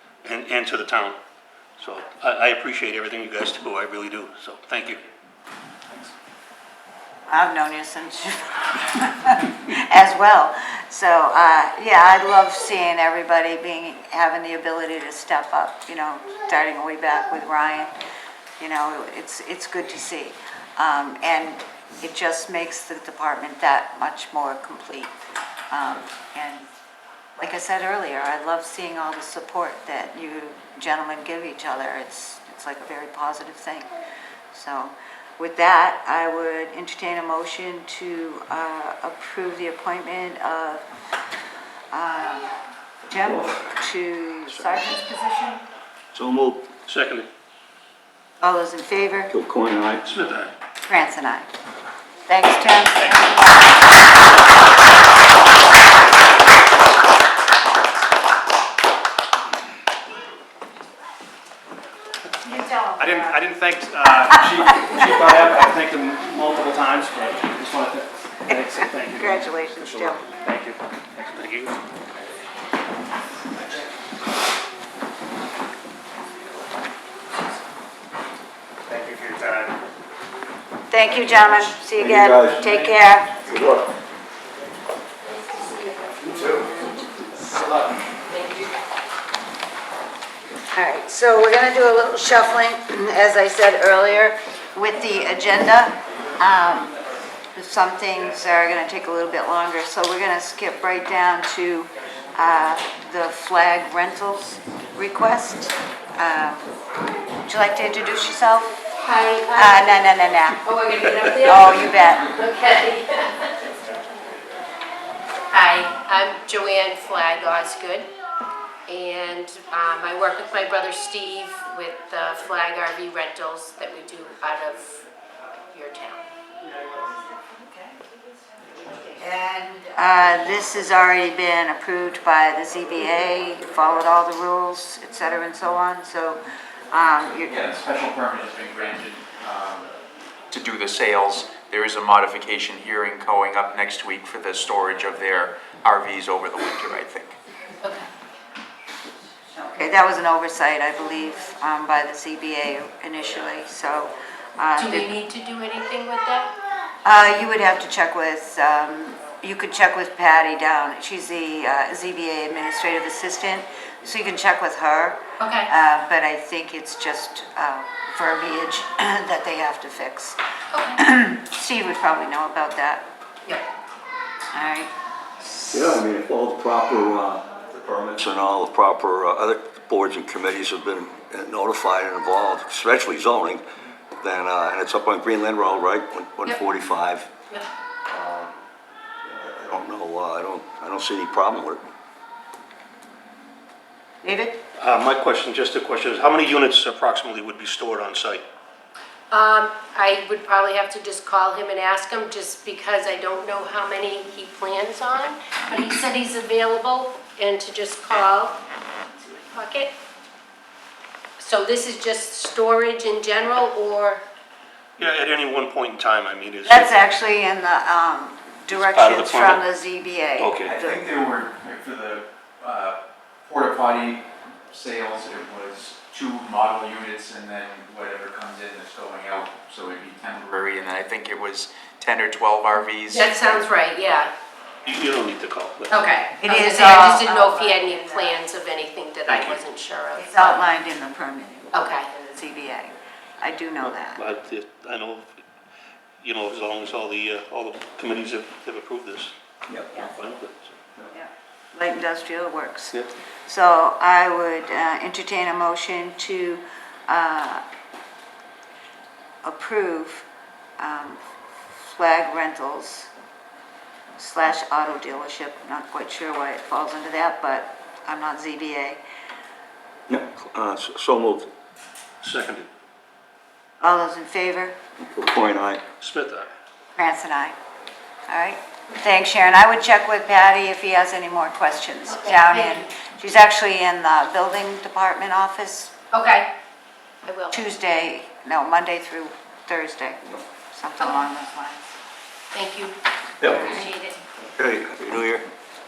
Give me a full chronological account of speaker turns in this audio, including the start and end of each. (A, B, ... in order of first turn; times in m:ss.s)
0:00.2-0:01.2 A
0:01.8-0:05.0 A
0:07.3-0:17.9 B
0:18.6-0:25.1 B
0:25.7-0:26.6 B
0:27.4-0:33.9 B
0:34.5-0:40.8 B
0:41.9-0:42.5 B
0:43.1-0:45.6 B
0:43.2-0:43.7 C
0:44.5-0:44.8 C
0:46.1-0:46.6 C
0:46.8-0:47.3 A
0:48.4-0:49.3 B
0:49.3-0:50.0 C
0:50.0-0:50.5 A
0:50.8-0:51.5 B
0:52.2-0:54.1 B
1:02.4-1:03.4 B
1:03.0-1:11.7 D
1:04.2-1:05.2 B
1:08.5-1:10.2 B
1:11.3-1:11.7 A
1:18.9-1:19.7 D
1:20.9-1:23.5 B
1:22.0-1:22.6 C
1:23.5-1:23.8 C
1:25.4-1:26.7 E
1:26.3-1:26.7 D
1:30.7-1:36.9 B
1:37.5-1:46.7 B
1:47.4-1:48.9 B
1:49.0-1:49.9 E
1:49.5-1:50.6 B
1:50.6-1:53.5 E
1:51.3-1:52.4 B
1:55.5-1:58.1 E
1:58.9-2:05.0 E
2:05.7-2:06.2 E
2:09.0-2:17.6 B
2:17.4-2:19.9 F
2:20.5-2:27.4 F
2:27.8-2:28.1 E
2:29.6-2:35.1 B
2:34.8-2:36.5 E
2:37.0-2:50.4 B
2:45.4-2:45.7 E
2:50.7-2:51.0 E
2:51.0-2:53.0 B
2:54.5-2:56.0 B
2:55.7-3:03.6 C
3:04.2-3:07.3 C
3:08.1-3:08.6 C
3:09.2-3:11.8 C
3:14.2-3:14.6 B
3:14.8-3:18.4 A
3:19.3-3:28.6 E
3:29.2-3:29.9 E
3:31.4-3:34.2 E
3:35.0-3:36.9 A
3:36.6-3:41.1 B
3:38.7-3:39.6 A
3:40.4-3:40.8 A
3:40.7-3:53.6 F
3:53.1-3:54.3 E
3:54.8-3:56.0 A
3:55.9-4:00.6 E
3:56.4-3:58.4 B
3:59.3-3:59.6 A
4:00.1-4:04.2 B
4:01.7-4:02.1 E
4:03.8-4:05.4 A
4:06.2-4:09.3 A
4:09.9-4:10.8 A
4:11.1-4:17.6 B
4:19.4-4:20.2 B
4:20.8-4:23.1 B
4:24.2-4:29.0 B
4:30.1-4:31.5 C
4:32.2-4:32.7 A
4:33.8-4:34.8 B
4:35.0-4:35.8 C
4:36.0-4:36.5 A
4:37.0-4:37.5 B
4:38.3-4:45.9 B
4:42.1-4:42.9 E
4:46.1-4:46.5 E
4:47.2-4:47.6 E
4:47.5-4:51.8 B
4:51.0-4:51.2 E
4:52.5-4:53.0 E
4:53.4-4:53.7 C
4:53.4-4:54.0 B
4:53.5-4:54.2 E
4:54.6-4:55.4 C